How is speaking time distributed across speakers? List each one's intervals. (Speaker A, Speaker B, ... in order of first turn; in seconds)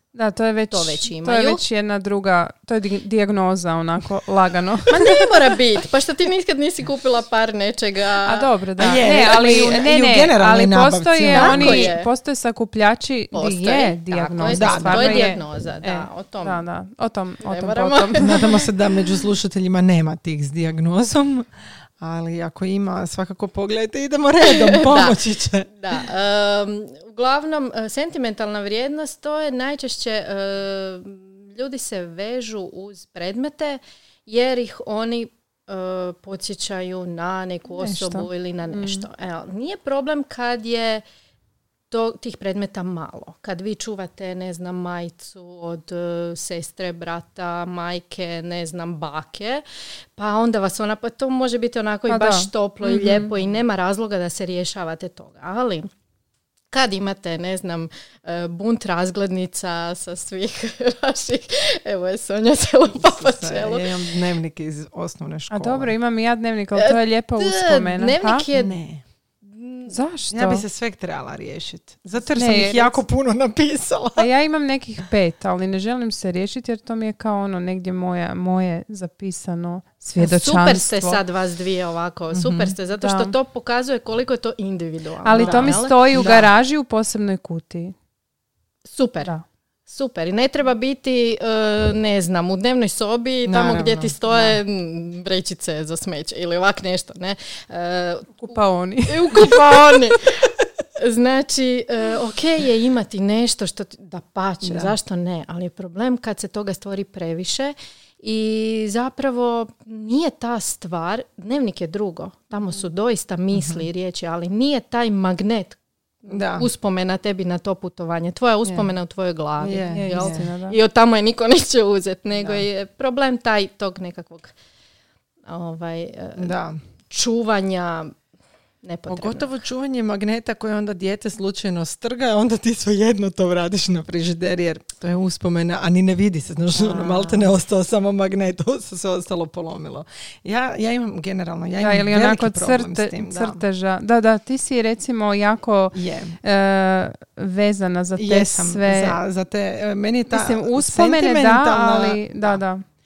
Speaker A: 0.1-5.4, 8.2-18.6, 37.9-39.1, 52.1-53.3, 65.5-68.5, 69.9-70.6, 72.3-73.0, 74.2-81.2, 83.0-83.3, 85.2-88.0, 98.5-99.5, 119.9-120.8, 141.8-149.2, 150.3-152.8
Speaker B: 0.7-1.6, 4.9-8.5, 11.3-12.1, 13.3-16.6, 17.4-18.6, 24.5-25.2, 25.8-41.0, 41.9-49.6, 50.2-55.9, 56.7-64.0, 66.8-68.8, 69.4-69.9, 80.2-86.5, 88.8-89.3, 89.9-98.6, 99.1-124.5, 125.5-126.5, 127.1-128.2, 128.8-129.6, 136.8-137.4
Speaker C: 8.8-11.9, 14.5-15.2, 18.2-21.5, 22.0-25.7, 63.0-65.9, 68.5-69.0, 70.3-74.3, 82.3-82.7, 85.4-85.8, 93.5-94.6, 99.3-100.0, 104.6-105.0, 113.5-113.8, 116.3-116.7, 119.6-120.4, 122.4-122.7, 126.4-126.8, 129.1-143.6, 145.9-146.4, 148.2-152.6